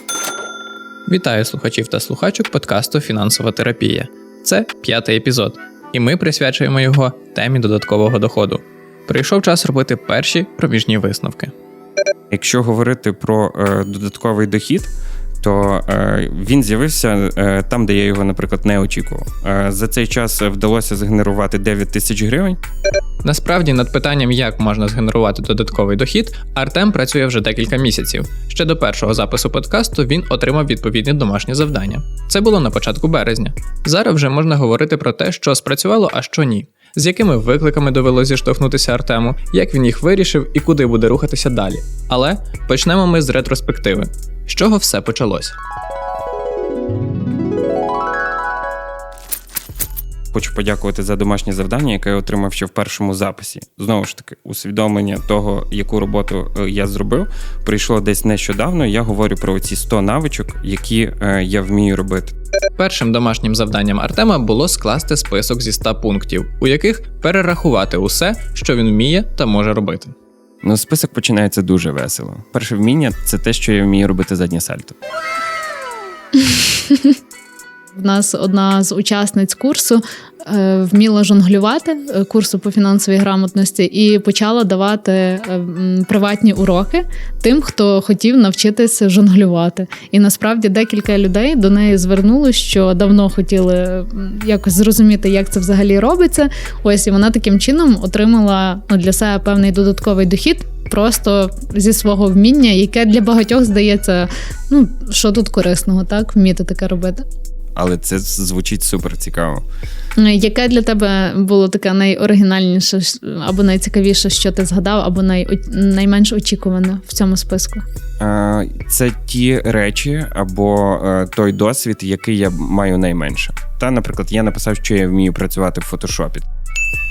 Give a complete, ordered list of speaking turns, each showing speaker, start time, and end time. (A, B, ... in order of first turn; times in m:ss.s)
0:01.1-0:11.5 A
0:12.3-0:22.6 B
0:23.2-0:45.6 A
0:50.3-1:02.4 B
1:02.8-1:10.1 A
1:10.6-1:15.0 B
1:16.4-1:17.2 C
1:18.0-1:47.2 C
1:47.8-1:49.6 B
1:50.2-1:57.8 C
1:58.2-2:06.5 B